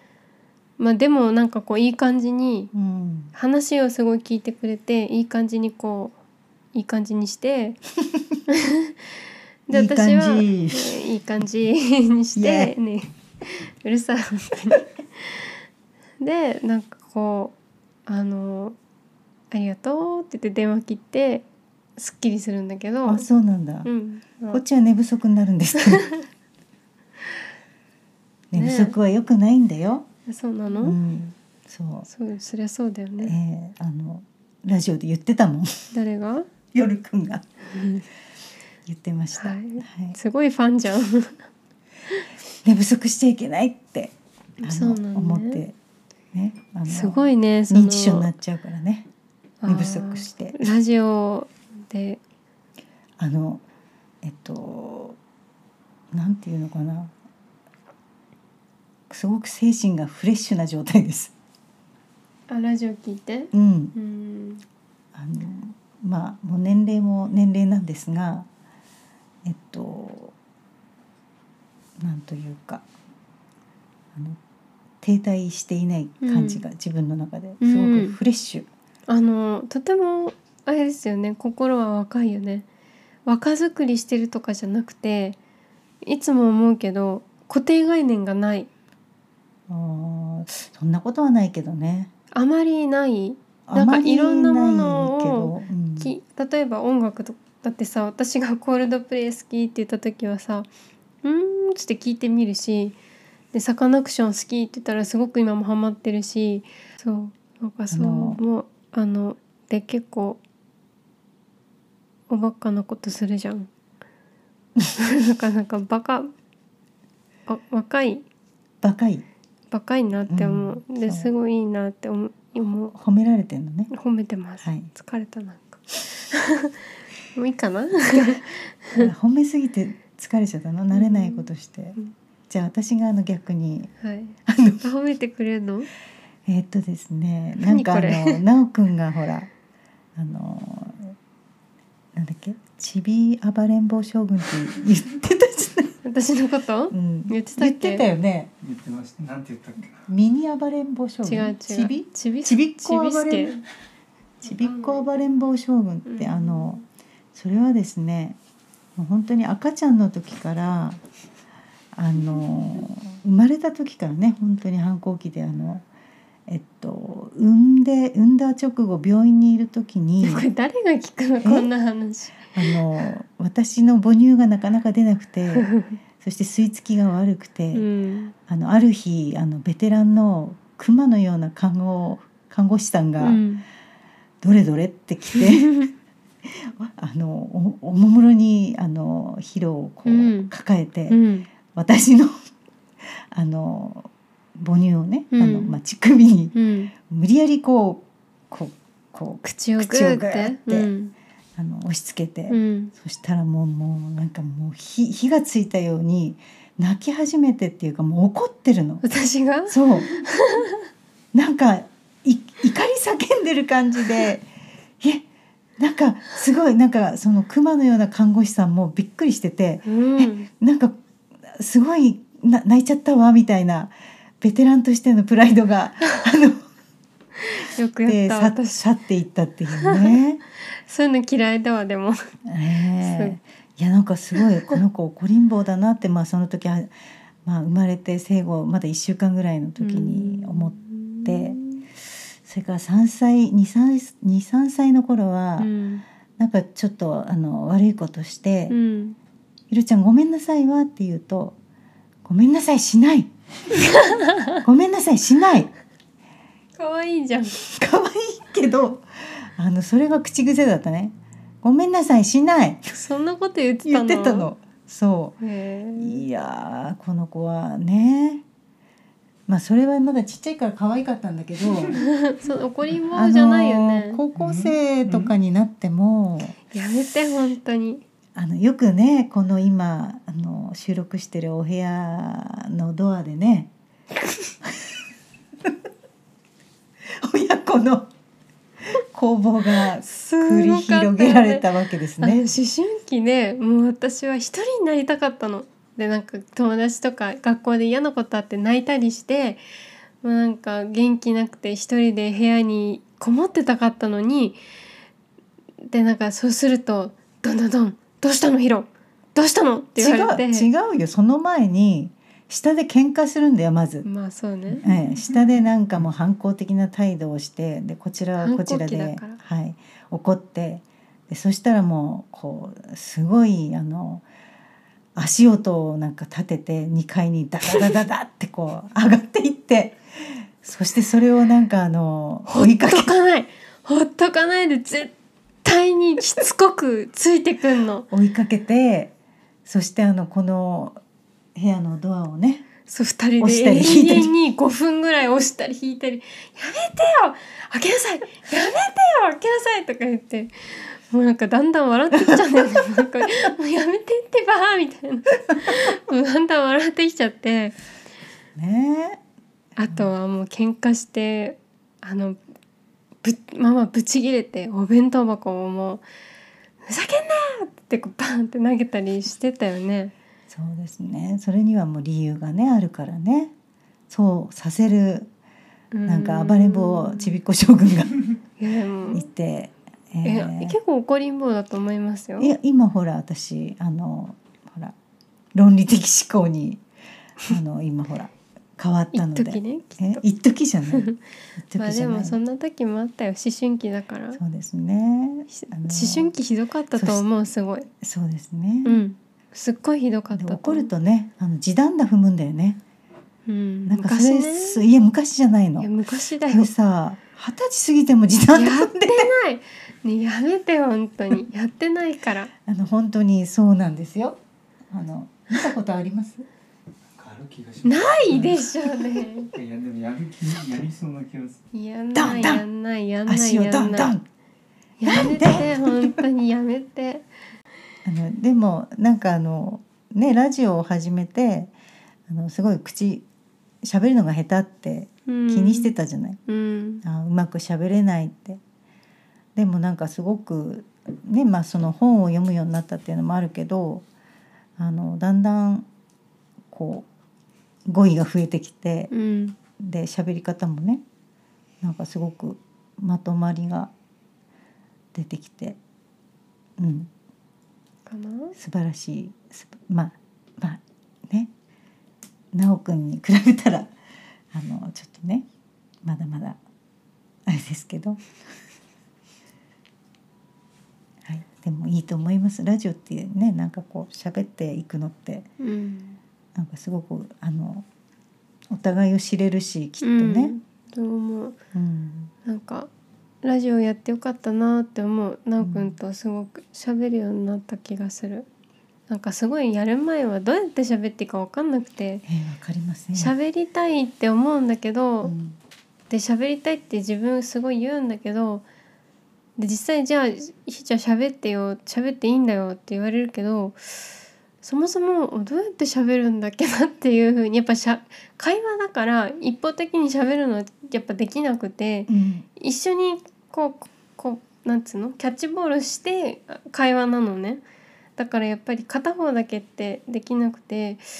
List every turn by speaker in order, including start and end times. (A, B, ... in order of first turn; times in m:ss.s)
0:00.8-0:02.7 A
0:02.7-0:03.3 B
0:03.3-0:06.2 A
0:06.7-0:07.8 A
0:08.5-0:08.9 A
0:09.7-0:15.5 A
0:09.7-0:11.0 B
0:12.3-0:12.7 B
0:16.2-0:17.5 A
0:18.0-0:18.8 A
0:19.5-0:21.4 A
0:22.0-0:23.3 A
0:23.0-0:23.9 B
0:23.8-0:24.6 A
0:24.5-0:26.1 B
0:25.8-0:26.2 A
0:28.5-0:30.1 B
0:28.5-0:28.9 A
0:30.3-0:31.0 A
0:30.8-0:32.1 B
0:32.1-0:33.3 A
0:33.2-0:35.9 B
0:35.9-0:36.5 A
0:36.7-0:37.5 B
0:37.7-0:38.0 A
0:38.8-0:40.2 B
0:39.4-0:41.5 A
0:42.6-0:45.8 B
0:44.6-0:45.6 A
0:46.3-0:49.1 B
0:46.9-0:48.3 A
0:49.6-0:52.2 A
0:49.7-0:50.7 B
0:53.2-0:53.6 B
0:54.2-0:55.2 B
0:56.1-0:57.1 B
0:59.1-1:01.3 B
1:02.5-1:04.6 A
1:03.5-1:03.9 B
1:05.1-1:08.5 B
1:09.4-1:10.3 B
1:12.0-1:12.8 B
1:14.1-1:14.4 B
1:15.0-1:18.7 B
1:16.2-1:16.6 A
1:17.6-1:18.2 A
1:19.1-1:22.6 A
1:23.2-1:25.4 A
1:26.0-1:28.7 A
1:29.7-1:32.1 B
1:32.3-1:40.7 A
1:33.7-1:36.1 B
1:41.2-1:43.0 A
1:43.5-1:50.4 A
1:47.9-1:48.4 B
1:52.3-1:53.7 A
1:55.0-1:56.3 A
1:57.5-1:58.2 A
1:58.8-1:59.2 B
1:59.7-2:02.9 A
2:00.3-2:01.3 B
2:02.9-2:03.9 B
2:03.9-2:06.7 A
2:04.6-2:04.9 B
2:07.3-2:09.1 A
2:08.9-2:12.0 B
2:10.9-2:12.1 A
2:12.5-2:13.9 B
2:14.0-2:15.9 A
2:14.4-2:14.8 B
2:16.4-2:19.5 B
2:17.6-2:18.4 A
2:20.2-2:21.2 B
2:22.1-2:26.0 B
2:26.0-2:28.0 A
2:26.9-2:28.5 B
2:28.6-2:30.1 C
2:30.1-2:33.6 B
2:31.2-2:33.6 A
2:34.4-2:36.8 B
2:36.0-2:36.8 A
2:37.3-2:38.4 B
2:39.0-2:41.0 B
2:41.9-2:45.8 B
2:46.5-2:50.4 B
2:50.2-2:52.8 A
2:51.4-2:51.7 B
2:52.5-2:57.8 B
2:55.5-2:56.0 A
2:57.7-2:58.3 A
2:58.5-3:03.4 B
3:03.2-3:03.6 A
3:04.4-3:05.8 B
3:05.6-3:05.9 A
3:06.4-3:11.2 B
3:10.0-3:10.5 A
3:11.1-3:11.5 A
3:11.7-3:12.3 B
3:13.3-3:20.9 B
3:15.3-3:15.8 A
3:16.5-3:16.9 A
3:19.4-3:21.1 A
3:21.6-3:29.0 B
3:22.5-3:22.9 A
3:29.0-3:30.8 A
3:29.7-3:30.2 B
3:31.3-3:34.5 B
3:35.0-3:35.2 B
3:35.8-3:46.6 B
3:39.8-3:40.5 A
3:47.4-3:48.8 A
3:48.0-3:50.4 B
3:49.8-3:50.2 A
3:50.8-3:52.3 A
3:52.5-3:56.9 B
3:53.0-3:53.4 A
3:54.4-3:54.7 A
3:57.4-4:01.6 B
3:59.8-4:01.8 A
4:02.4-4:05.7 B
4:05.6-4:06.0 A
4:06.4-4:08.7 B
4:08.7-4:09.2 A
4:09.7-4:11.6 B
4:12.2-4:13.3 B
4:13.8-4:14.6 A
4:14.6-4:15.7 B
4:16.8-4:17.6 A
4:17.5-4:22.9 B
4:22.9-4:24.5 A
4:23.8-4:25.3 B
4:25.4-4:26.2 A
4:26.0-4:28.4 B
4:29.5-4:32.0 B
4:32.1-4:34.2 A
4:33.1-4:36.6 B
4:34.4-4:34.7 C
4:36.7-4:38.0 A
4:38.3-4:43.7 B
4:44.6-4:44.9 B
4:47.0-4:48.1 B
4:48.8-4:52.5 B
4:50.0-4:51.6 A
4:52.2-4:59.6 A
5:00.2-5:04.6 A
5:05.9-5:10.7 A
5:10.0-5:14.1 B
5:14.0-5:14.8 A
5:14.7-5:24.2 B
5:18.4-5:19.4 A
5:25.1-5:33.1 B
5:32.5-5:35.1 A
5:35.6-5:38.1 A
5:38.1-5:39.1 B
5:39.6-5:41.0 B
5:41.5-5:42.7 B
5:42.8-5:57.7 A
5:43.4-5:44.3 B
5:58.6-5:59.2 B
5:59.8-6:02.4 A
6:03.2-6:06.0 A
6:06.8-6:10.1 A
6:10.5-6:13.5 B
6:14.1-6:15.3 B
6:15.9-6:17.4 A
6:16.0-6:18.3 B
6:18.6-6:19.2 A
6:19.1-6:20.8 B
6:20.2-6:22.5 A
6:22.4-6:25.0 B
6:25.5-6:26.8 B
6:27.4-6:32.4 B
6:29.1-6:30.2 A
6:30.9-6:31.2 A
6:31.8-6:34.4 A
6:34.4-6:36.3 B
6:35.5-6:37.9 A
6:36.9-6:37.2 B
6:38.0-6:39.0 B
6:38.8-6:40.9 A
6:40.3-6:42.8 B
6:43.5-6:44.8 A
6:43.8-6:45.9 B
6:45.8-6:46.7 A
6:46.5-6:49.3 B
6:48.5-6:52.5 A
6:52.6-6:56.4 B
6:57.2-6:58.7 C
6:57.8-6:59.5 A
6:59.5-7:01.6 C
7:01.7-7:04.1 A
7:02.1-7:02.6 B
7:03.2-7:04.2 B
7:05.0-7:07.2 A
7:05.1-7:06.2 B
7:08.0-7:11.7 B
7:12.3-7:13.2 B
7:13.8-7:16.4 B
7:15.3-7:15.9 A
7:16.5-7:17.0 A
7:17.0-7:18.6 B
7:19.6-7:24.0 B
7:24.8-7:25.8 B
7:26.7-7:27.1 B
7:27.8-7:29.1 B
7:29.1-7:29.6 A
7:29.8-7:31.0 B
7:31.8-7:33.9 B
7:35.1-7:35.8 B
7:36.8-7:37.1 B
7:38.0-7:38.5 A
7:38.6-7:41.5 B
7:42.5-7:43.9 B
7:44.5-7:45.4 B
7:46.0-7:46.6 B
7:47.4-7:48.2 B
7:51.2-7:55.5 B
7:55.6-7:56.2 A
7:56.5-7:57.8 B
7:58.7-8:00.5 B
8:00.0-8:01.6 A
8:01.7-8:02.3 B
8:02.4-8:02.9 A
8:03.4-8:08.5 A
8:05.6-8:06.0 B
8:09.1-8:12.2 A
8:12.2-8:13.3 B
8:13.1-8:15.3 A
8:15.2-8:15.6 B
8:16.1-8:18.6 A
8:19.6-8:37.6 A
8:32.1-8:32.4 B
8:38.2-8:41.0 A